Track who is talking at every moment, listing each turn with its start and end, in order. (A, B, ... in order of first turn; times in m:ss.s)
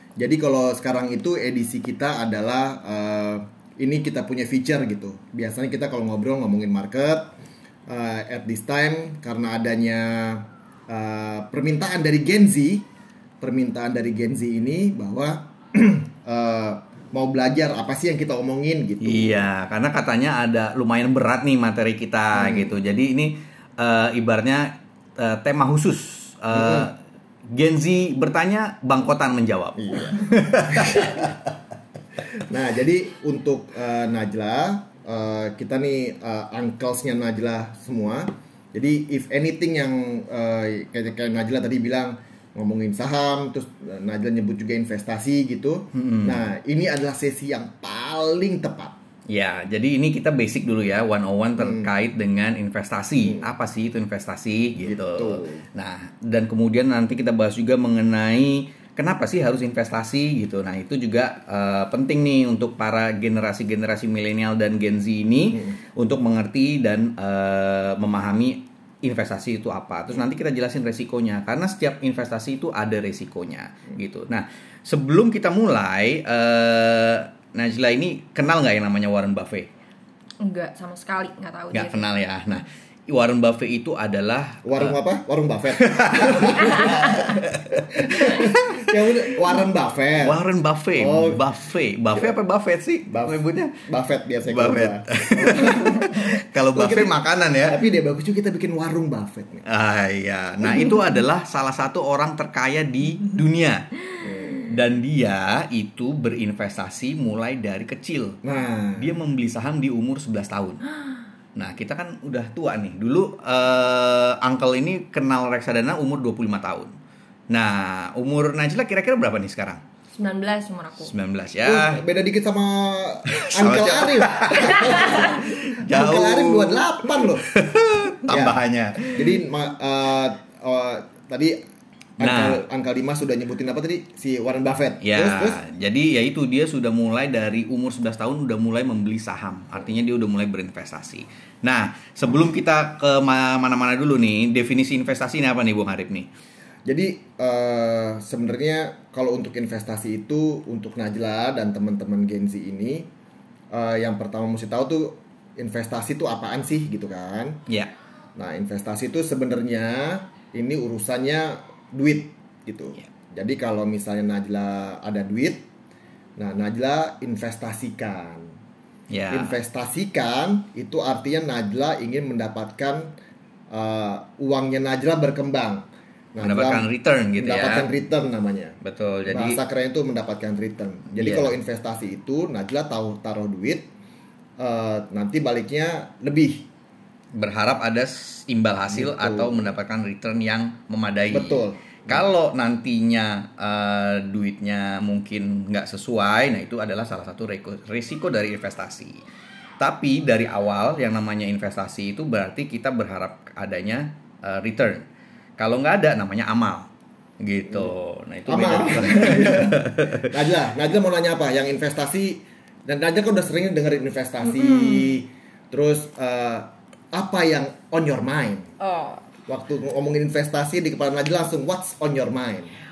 0:00.2-0:07.3 A
0:07.9-0:12.8 A
0:13.4-0:19.4 A
0:19.0-0:27.0 B
0:22.3-0:22.7 A
0:26.5-0:26.9 A
0:27.5-0:31.4 B
0:29.8-0:31.3 A
0:32.4-0:49.0 A
0:45.9-0:46.5 B
0:49.3-1:19.7 B
0:51.6-0:51.9 A
0:54.8-0:55.6 A
1:20.4-1:22.1 C
1:21.7-1:25.0 B
1:24.6-1:30.4 A
1:25.7-1:28.9 B
1:30.2-1:33.9 B
1:31.0-1:31.5 A
1:33.1-1:39.6 A
1:34.5-1:37.8 B
1:39.6-1:43.9 B
1:44.2-1:44.6 A
1:44.6-1:48.4 B
1:48.4-1:49.2 A
1:49.0-1:50.8 B
1:51.5-1:56.9 B
1:57.5-1:59.8 B
2:00.1-2:01.1 C
2:01.0-2:02.0 B
2:01.6-2:07.5 A
2:03.3-2:09.4 B
2:08.3-2:11.6 A
2:12.2-2:15.6 A
2:12.2-2:12.6 B
2:15.0-2:26.3 B
2:26.8-2:33.1 A
2:33.7-2:37.6 A
2:38.4-2:45.6 A
2:46.4-2:48.5 A
2:49.1-2:49.6 B
2:49.3-2:53.1 A
2:53.7-2:58.8 A
2:56.4-2:57.9 B
2:58.8-2:59.6 B
2:59.3-3:03.9 A
3:01.2-3:01.5 B
3:04.6-3:06.6 A
3:07.3-3:19.2 B
3:08.9-3:09.7 A
3:11.3-3:12.3 A
3:19.8-3:25.0 B
3:25.6-3:26.9 B
3:27.4-3:30.3 B
3:28.5-3:38.7 A
3:34.4-3:35.2 C
3:38.8-3:39.2 C
3:39.5-3:42.7 A